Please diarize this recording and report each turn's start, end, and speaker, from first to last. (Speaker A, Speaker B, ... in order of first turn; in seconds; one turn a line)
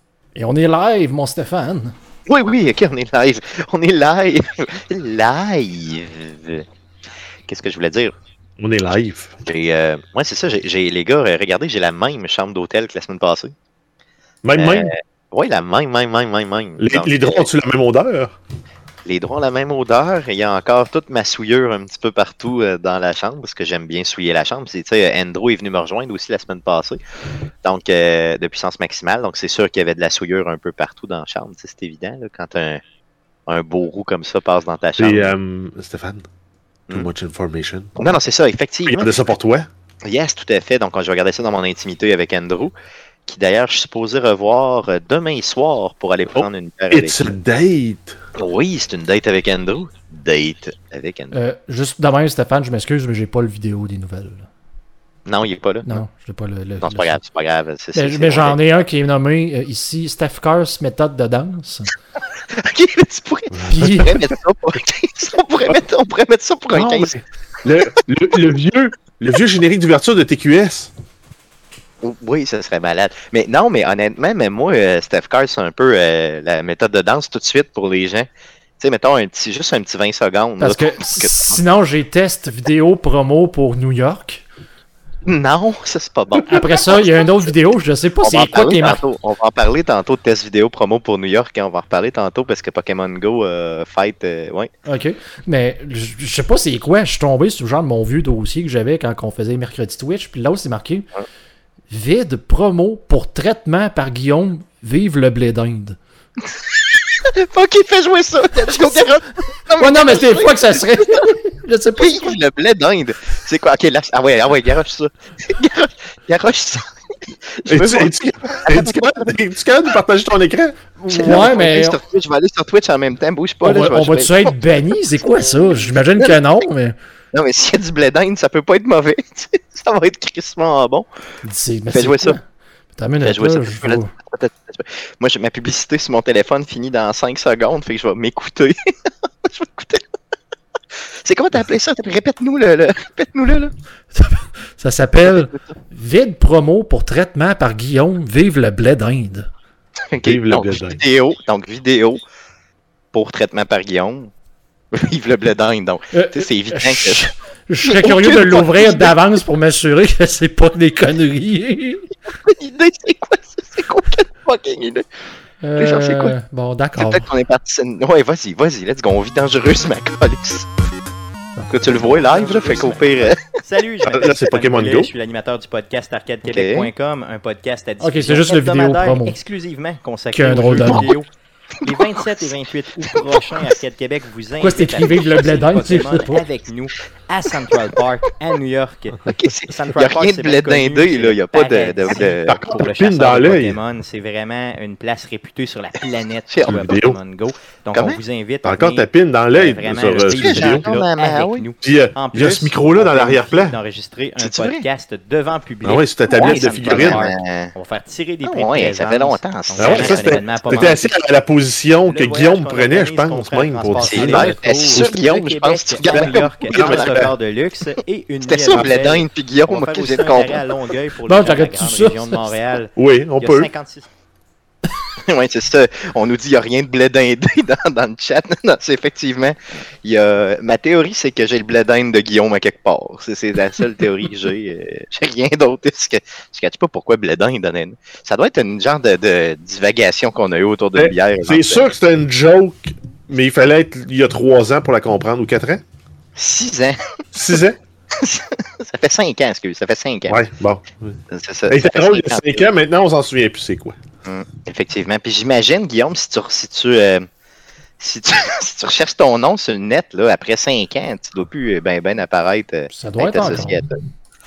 Speaker A: 0.3-1.9
Speaker B: 2.3-6.6
Speaker B: 7.5-8.1
Speaker C: 8.6-9.3
Speaker B: 9.4-13.5
Speaker C: 14.4-14.9
Speaker B: 14.6-17.5
Speaker C: 16.8-18.3
Speaker B: 19.0-27.0
Speaker B: 27.6-32.8
Speaker B: 33.5-35.4
Speaker C: 35.0-36.2
Speaker C: 36.9-38.0
Speaker B: 38.0-39.3
Speaker C: 38.9-39.7
Speaker B: 40.0-42.7
Speaker B: 43.2-47.3
Speaker C: 46.3-48.2
Speaker B: 48.4-51.4
Speaker A: 51.3-54.5
Speaker B: 55.2-56.0
Speaker A: 55.8-57.2
Speaker B: 56.8-58.6
Speaker A: 57.9-61.9
Speaker B: 62.5-67.1
Speaker A: 63.7-64.2
Speaker C: 63.7-64.2
Speaker C: 66.7-70.9
Speaker B: 72.0-78.3
Speaker B: 78.8-81.6
Speaker A: 80.6-84.4
Speaker B: 85.2-87.2
Speaker A: 86.5-89.0
Speaker B: 88.2-94.7
Speaker A: 94.8-101.1
Speaker A: 101.9-106.0
Speaker B: 106.5-111.3
Speaker A: 109.8-112.3
Speaker B: 112.0-116.8
Speaker B: 117.6-119.3
Speaker C: 117.7-121.5
Speaker B: 121.1-124.5
Speaker A: 121.1-122.0
Speaker A: 123.6-127.0
Speaker B: 127.3-131.1
Speaker A: 131.4-132.4
Speaker B: 131.9-132.4
Speaker A: 132.9-134.1
Speaker B: 133.2-138.8
Speaker B: 139.4-140.0
Speaker B: 141.2-143.7
Speaker A: 144.1-149.5
Speaker B: 150.1-152.2
Speaker C: 150.2-151.0
Speaker B: 153.1-154.3
Speaker B: 154.9-157.3
Speaker A: 156.1-162.0
Speaker B: 157.8-159.1
Speaker B: 162.4-165.0
Speaker A: 165.6-167.3
Speaker B: 165.8-166.3
Speaker B: 166.9-170.7
Speaker A: 171.6-173.0
Speaker B: 171.7-173.4
Speaker D: 171.8-179.3
Speaker C: 174.0-175.1
Speaker B: 176.4-176.9
Speaker A: 178.0-179.3
Speaker B: 179.3-181.1
Speaker A: 180.3-181.2
Speaker D: 180.3-181.2
Speaker B: 181.8-182.5
Speaker D: 181.8-211.1
Speaker A: 184.6-186.4
Speaker B: 189.2-192.6
Speaker C: 192.1-193.8
Speaker B: 196.5-196.9
Speaker C: 196.7-197.2
Speaker B: 197.9-198.2
Speaker C: 198.6-200.9
Speaker B: 200.2-201.7
Speaker C: 201.8-203.8
Speaker B: 204.4-204.8
Speaker C: 205.8-207.2
Speaker B: 206.3-207.7
Speaker B: 208.4-211.0
Speaker C: 209.8-215.1
Speaker D: 212.0-222.8
Speaker B: 214.0-217.2
Speaker A: 214.2-214.6
Speaker C: 216.1-217.3
Speaker B: 218.4-220.6
Speaker A: 221.2-222.5
Speaker B: 222.5-222.8
Speaker C: 223.0-223.7
Speaker B: 223.4-224.0
Speaker B: 225.3-241.9
Speaker C: 240.9-245.8
Speaker B: 246.3-247.0
Speaker C: 247.3-247.8
Speaker B: 248.2-250.4
Speaker C: 250.3-251.1
Speaker B: 251.3-252.7
Speaker C: 251.7-253.9
Speaker B: 254.2-257.2
Speaker B: 258.0-263.9
Speaker A: 262.9-263.9